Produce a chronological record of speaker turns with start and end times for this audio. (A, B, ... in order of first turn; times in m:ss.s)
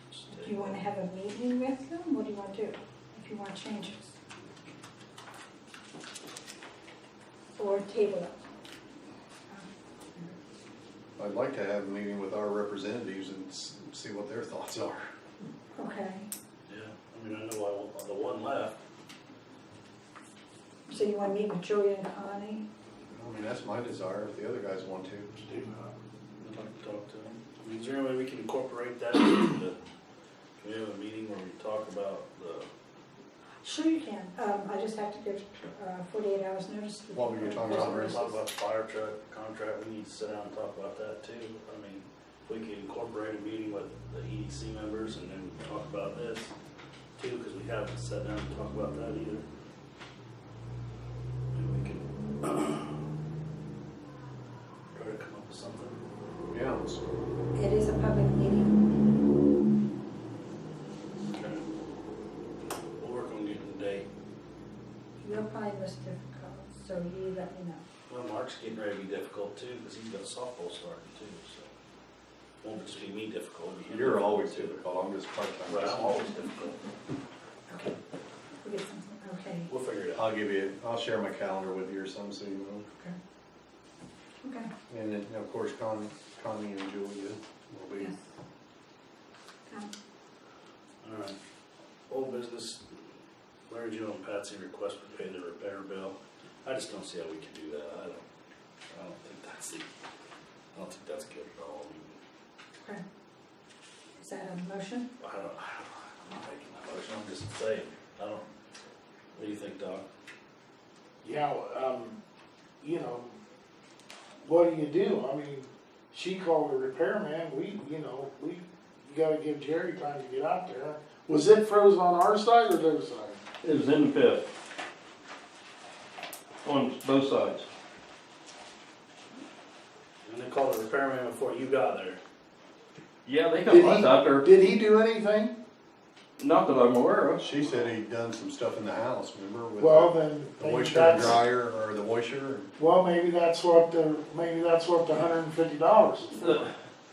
0:00.2-0:00.8 A
0:00.3-0:04.2 B
0:07.6-0:08.4 B
0:09.5-0:10.4 B
0:11.2-0:15.1 C
0:15.8-0:16.3 B
0:16.7-0:18.8 A
0:20.9-0:22.7 B
0:23.1-0:25.3 C
0:25.4-0:26.0 D
0:26.4-0:29.8 A
0:30.6-0:32.7 A
0:33.6-0:38.4 B
0:37.1-0:38.2 C
0:37.4-0:46.5 A
0:47.2-0:49.4 A
0:51.5-0:53.0 A
0:54.9-0:56.0 A
0:56.5-0:57.0 C
0:57.6-0:58.9 B
1:01.3-1:01.6 A
1:03.0-1:04.0 A
1:05.2-1:07.8 B
1:08.1-1:11.7 A
1:12.6-1:14.8 A
1:13.9-1:16.2 C
1:15.7-1:16.8 A
1:17.7-1:17.9 B
1:18.6-1:19.7 B
1:19.7-1:20.3 A
1:20.1-1:22.9 C
1:24.4-1:24.7 B
1:24.9-1:28.1 C
1:31.0-1:31.4 A
1:32.1-1:32.8 A
1:33.7-1:38.2 A
1:38.9-1:39.9 A
1:40.7-1:42.2 A
1:44.2-1:45.1 B
1:45.2-1:48.4 A
1:49.3-1:50.0 A
1:51.2-1:52.2 D
1:52.8-1:53.4 D
1:54.4-2:03.4 D
2:03.6-2:04.5 E
2:06.6-2:07.7 E
2:10.2-2:12.2 A
2:13.3-2:14.5 E
2:13.7-2:15.5 D
2:16.4-2:17.5 E
2:17.4-2:22.7 C
2:19.8-2:21.4 D
2:22.8-2:26.4 D
2:26.4-2:26.7 E